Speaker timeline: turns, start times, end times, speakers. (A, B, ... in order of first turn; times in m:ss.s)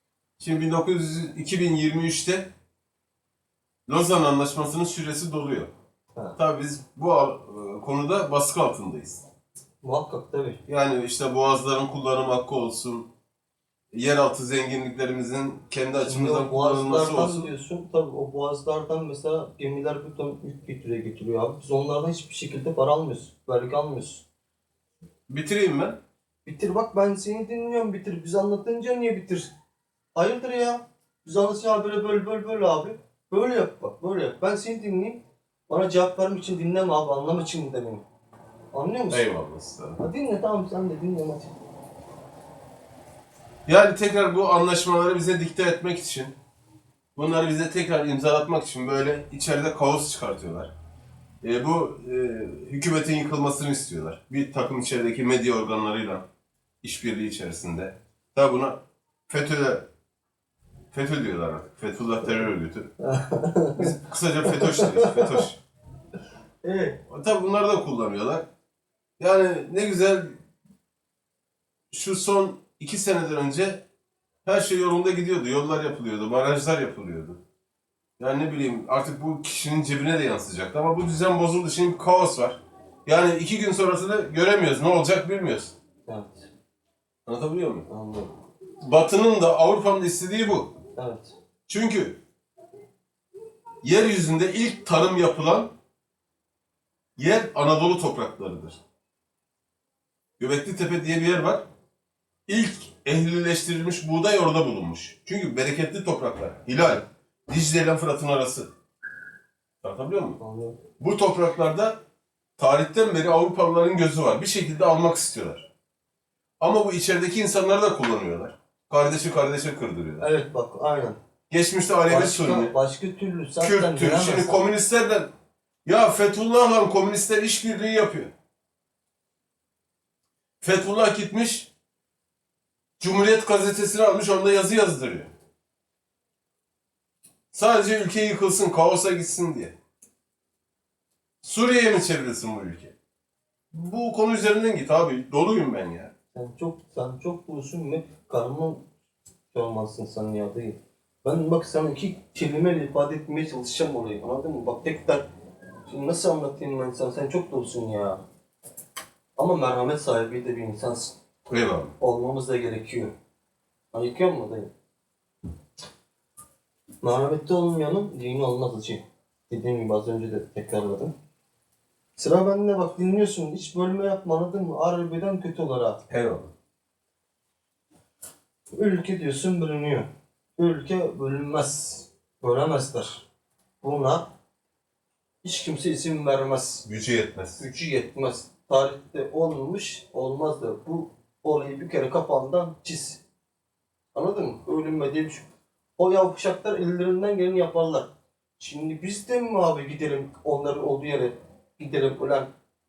0:00.4-0:02.5 A
0:03.9-0:05.7 A
0:06.4-0:09.2 A
0:09.8-0:10.6 B
0:10.7-0:13.1 A
0:13.9-0:17.5 A
0:16.0-0:24.2 B
0:25.3-0:26.0 A
0:26.5-0:29.5 B
0:30.2-0:38.0 B
0:38.7-0:39.3 B
0:39.1-0:40.0 A
0:40.0-0:41.5 B
0:43.7-0:46.3 A
0:47.2-0:50.7 A
0:51.4-0:56.2 A
0:56.8-0:58.8 A
0:59.3-0:59.8 A
1:00.9-1:02.9 A
1:03.0-1:03.9 B
1:03.8-1:05.6 A
1:04.5-1:05.4 B
1:06.6-1:07.0 B
1:07.1-1:08.4 A
1:09.2-1:10.4 A
1:11.9-1:13.8 A
1:14.5-1:17.4 A
1:18.2-1:25.7 A
1:26.1-1:26.5 B
1:27.3-1:27.9 A
1:27.9-1:28.3 B
1:28.8-1:30.7 A
1:31.0-1:31.4 B
1:31.7-1:32.2 A
1:33.8-1:35.7 A
1:37.2-1:38.8 A
1:40.4-1:41.6 A
1:42.5-1:48.7 A
1:49.8-1:50.4 A
1:50.4-1:50.8 B
1:51.0-1:52.0 A
1:52.6-1:55.7 A
1:56.6-2:00.2 A
2:00.2-2:01.2 B
2:01.5-2:02.7 A
2:02.1-2:04.6 B
2:03.6-2:05.3 A
2:05.8-2:08.3 A
2:10.6-2:11.7 A
2:13.0-2:15.3 A
2:17.5-2:19.8 A
2:21.4-2:22.9 A
2:23.7-2:26.1 A
2:26.3-2:28.8 B
2:29.5-2:35.2 B
2:35.9-2:38.2 B
2:39.4-2:41.1 B
2:41.5-2:41.9 A
2:42.0-2:43.1 B
2:43.9-2:44.7 B
2:47.0-2:51.1 B
2:52.2-2:56.0 B
2:56.1-2:56.5 A
2:58.7-3:03.2 B
3:03.8-3:04.2 B
3:05.4-3:06.8 B
3:06.8-3:07.6 A
3:07.6-3:13.2 B
3:14.1-3:15.4 B
3:16.0-3:18.1 B
3:18.6-3:22.5 B